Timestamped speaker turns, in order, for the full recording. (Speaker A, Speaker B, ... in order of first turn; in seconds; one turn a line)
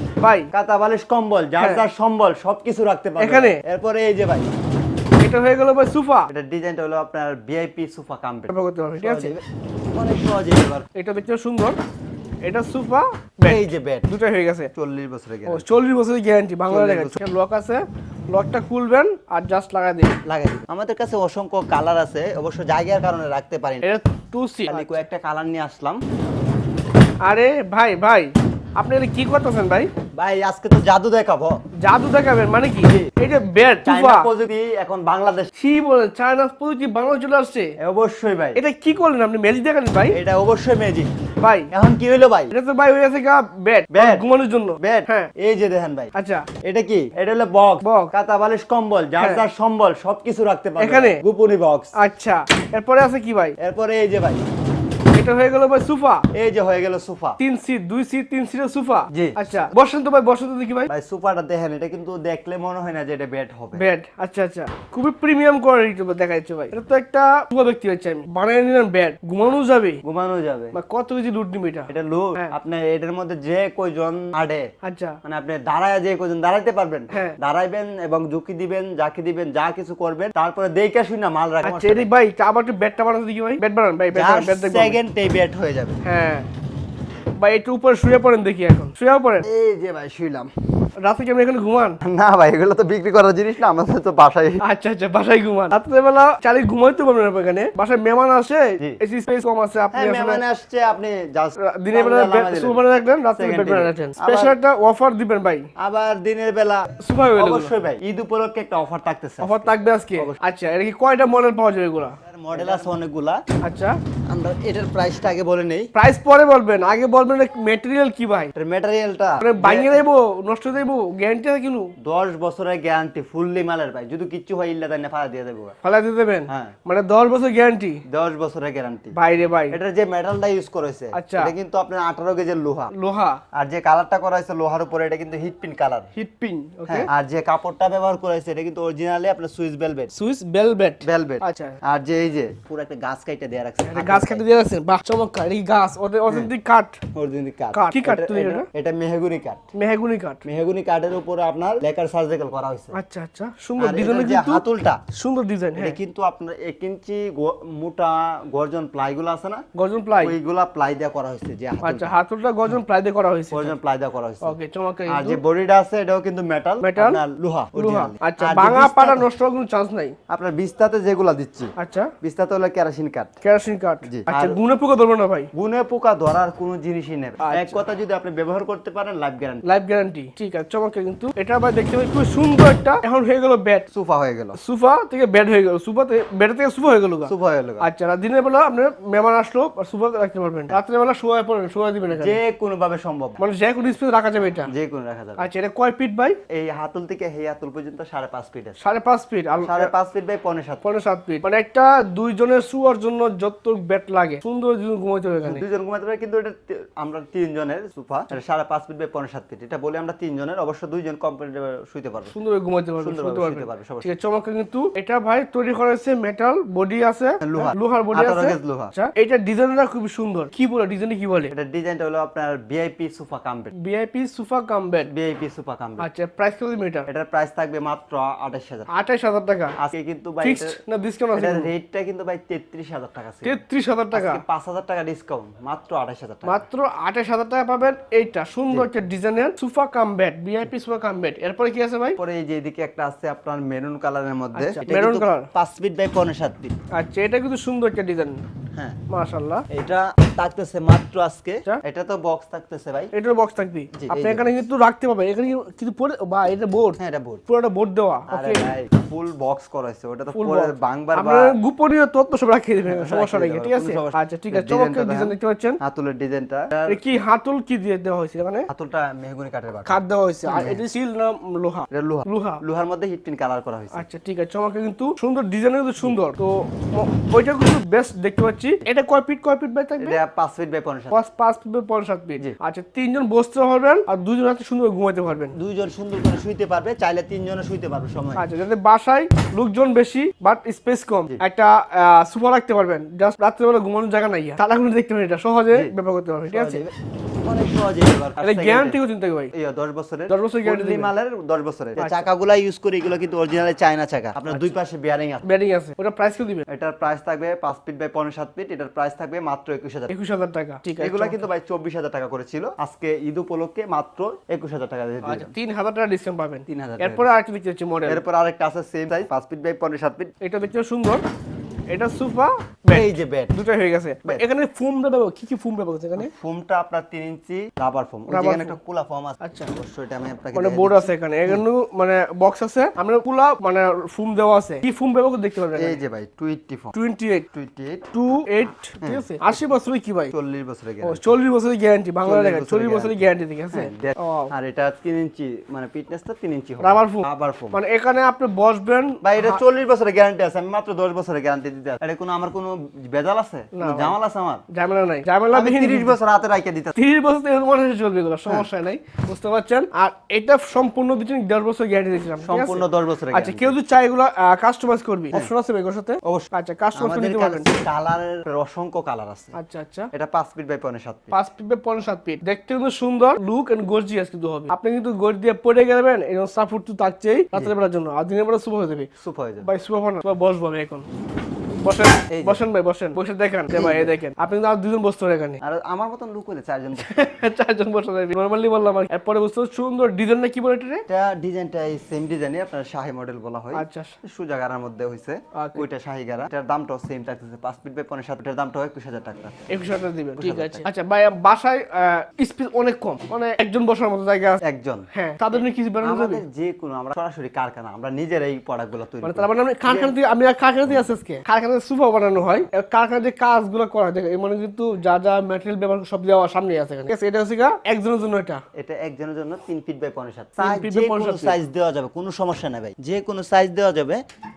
Speaker A: 0.2-0.5
Speaker B: 0.5-4.5
Speaker A: 1.6-1.9
Speaker A: 3.2-3.6
Speaker A: 5.2-6.3
Speaker B: 6.3-9.4
Speaker A: 8.5-9.3
Speaker B: 9.9-10.9
Speaker A: 10.9-11.8
Speaker A: 12.4-14.7
Speaker B: 13.4-14.1
Speaker B: 14.8-15.7
Speaker A: 15.4-20.2
Speaker B: 16.7-17.2
Speaker B: 20.2-23.9
Speaker A: 23.8-25.0
Speaker B: 24.7-26.0
Speaker A: 27.2-29.9
Speaker B: 30.1-31.6
Speaker A: 31.8-34.3
Speaker B: 32.8-33.1
Speaker B: 33.8-35.5
Speaker A: 35.5-37.7
Speaker B: 37.8-38.6
Speaker A: 38.5-40.2
Speaker B: 40.1-41.1
Speaker A: 41.4-41.7
Speaker B: 41.7-42.5
Speaker A: 42.5-45.3
Speaker B: 43.9-44.2
Speaker B: 44.8-46.1
Speaker A: 46.1-46.5
Speaker B: 46.6-51.9
Speaker A: 47.8-48.1
Speaker A: 49.2-49.5
Speaker A: 50.8-51.2
Speaker A: 52.0-53.6
Speaker B: 53.6-54.4
Speaker A: 55.1-56.3
Speaker B: 56.3-57.4
Speaker A: 57.4-60.9
Speaker B: 59.1-59.4
Speaker B: 60.9-63.8
Speaker A: 63.8-70.0
Speaker B: 70.0-70.8
Speaker A: 70.7-72.5
Speaker B: 71.9-74.7
Speaker A: 74.8-75.2
Speaker B: 75.2-82.0
Speaker A: 77.1-77.4
Speaker A: 81.6-85.0
Speaker B: 84.1-86.0
Speaker A: 86.0-86.5
Speaker A: 87.4-89.5
Speaker B: 89.4-90.5
Speaker A: 91.0-92.0
Speaker B: 92.0-94.6
Speaker A: 94.6-100.4
Speaker B: 99.9-102.8
Speaker A: 101.6-105.7
Speaker B: 103.3-104.5
Speaker B: 105.8-110.4
Speaker A: 107.0-107.7
Speaker A: 109.4-112.9
Speaker B: 112.2-113.4
Speaker A: 113.6-114.0
Speaker B: 114.3-115.9
Speaker A: 115.9-118.5
Speaker B: 118.5-120.0
Speaker A: 119.4-121.9
Speaker B: 122.0-125.8
Speaker A: 125.8-128.0
Speaker B: 126.5-126.8
Speaker B: 128.1-129.2
Speaker A: 129.2-129.8
Speaker B: 129.7-132.9
Speaker A: 131.1-131.5
Speaker A: 132.9-133.4
Speaker B: 133.5-136.1
Speaker A: 136.2-137.1
Speaker B: 136.9-140.1
Speaker A: 140.1-141.8
Speaker B: 141.0-144.4
Speaker A: 143.8-147.0
Speaker B: 147.1-149.6
Speaker A: 147.7-148.7
Speaker A: 149.7-150.4
Speaker B: 150.4-152.9
Speaker A: 152.9-156.0
Speaker B: 153.8-155.0
Speaker B: 155.8-159.6
Speaker A: 159.8-160.3
Speaker B: 160.2-162.1
Speaker A: 161.8-163.8
Speaker B: 163.5-164.6
Speaker A: 164.4-165.4
Speaker B: 165.1-169.2
Speaker A: 166.8-167.2
Speaker A: 167.8-170.1
Speaker B: 170.3-173.3
Speaker A: 171.8-172.1
Speaker A: 173.4-175.5
Speaker B: 174.1-174.6
Speaker B: 175.5-179.6
Speaker A: 177.4-177.8
Speaker A: 179.7-183.9
Speaker B: 183.9-184.6
Speaker A: 184.6-192.4
Speaker B: 187.2-187.8
Speaker B: 192.1-193.4
Speaker A: 193.4-194.7
Speaker B: 194.7-195.4
Speaker A: 195.4-196.4
Speaker B: 196.5-198.8
Speaker A: 198.8-199.9
Speaker B: 199.6-200.8
Speaker A: 200.8-205.6
Speaker B: 205.5-212.3
Speaker A: 212.3-221.5
Speaker B: 213.0-214.1
Speaker B: 217.4-218.9
Speaker B: 221.5-223.7
Speaker A: 223.8-225.1
Speaker B: 225.1-226.1
Speaker A: 226.0-227.1
Speaker B: 227.1-228.9
Speaker A: 228.9-229.8
Speaker B: 229.8-230.8
Speaker A: 230.4-231.7
Speaker B: 231.3-233.6
Speaker A: 233.4-234.4
Speaker B: 234.1-236.7
Speaker A: 236.4-242.2
Speaker B: 242.2-246.8
Speaker A: 244.6-245.5
Speaker A: 246.9-248.4
Speaker A: 249.1-249.7
Speaker B: 249.7-253.1
Speaker A: 253.1-258.7
Speaker B: 254.0-254.5
Speaker B: 257.0-257.4
Speaker B: 258.3-261.6
Speaker A: 260.3-265.8
Speaker B: 262.9-267.0
Speaker A: 266.9-268.7
Speaker B: 268.7-270.8
Speaker A: 269.9-272.6
Speaker B: 271.9-274.0
Speaker A: 273.9-280.2
Speaker B: 280.0-281.1
Speaker A: 281.1-285.6
Speaker B: 285.5-288.4
Speaker A: 288.4-296.8
Speaker B: 296.5-299.0
Speaker A: 298.4-299.5
Speaker B: 299.5-305.4
Speaker A: 300.3-301.1
Speaker A: 302.0-302.3
Speaker A: 305.4-306.6
Speaker B: 306.7-310.1
Speaker A: 310.1-311.5
Speaker B: 311.0-315.5
Speaker A: 315.2-318.2
Speaker B: 316.7-317.3
Speaker B: 318.1-320.3
Speaker A: 320.4-321.2
Speaker A: 321.9-326.3
Speaker B: 322.9-323.5
Speaker B: 326.2-331.6
Speaker A: 328.3-328.8
Speaker A: 329.4-329.7
Speaker A: 330.5-336.0
Speaker B: 335.8-336.9
Speaker A: 336.9-337.5
Speaker B: 337.5-338.1
Speaker A: 338.1-340.3
Speaker B: 339.0-339.6
Speaker B: 340.3-341.4
Speaker A: 341.0-344.5
Speaker B: 342.2-347.8
Speaker A: 346.8-349.6
Speaker B: 349.2-354.6
Speaker A: 353.7-354.1
Speaker A: 354.7-356.2
Speaker B: 355.5-357.0
Speaker A: 356.9-367.8
Speaker B: 362.4-363.7
Speaker B: 366.2-369.5
Speaker A: 369.6-370.1
Speaker B: 370.1-371.3
Speaker A: 371.3-379.1
Speaker B: 379.2-379.7
Speaker A: 379.6-381.1
Speaker A: 381.7-385.6
Speaker B: 382.3-382.6
Speaker B: 383.7-384.1
Speaker B: 385.6-387.2
Speaker A: 387.0-391.0
Speaker B: 391.1-399.8
Speaker A: 393.7-394.1
Speaker A: 395.5-395.9
Speaker A: 399.7-404.6
Speaker B: 400.4-400.9
Speaker B: 404.6-405.0
Speaker A: 405.1-406.4
Speaker B: 406.0-410.1
Speaker A: 409.2-418.6
Speaker B: 418.8-424.2
Speaker A: 420.6-421.6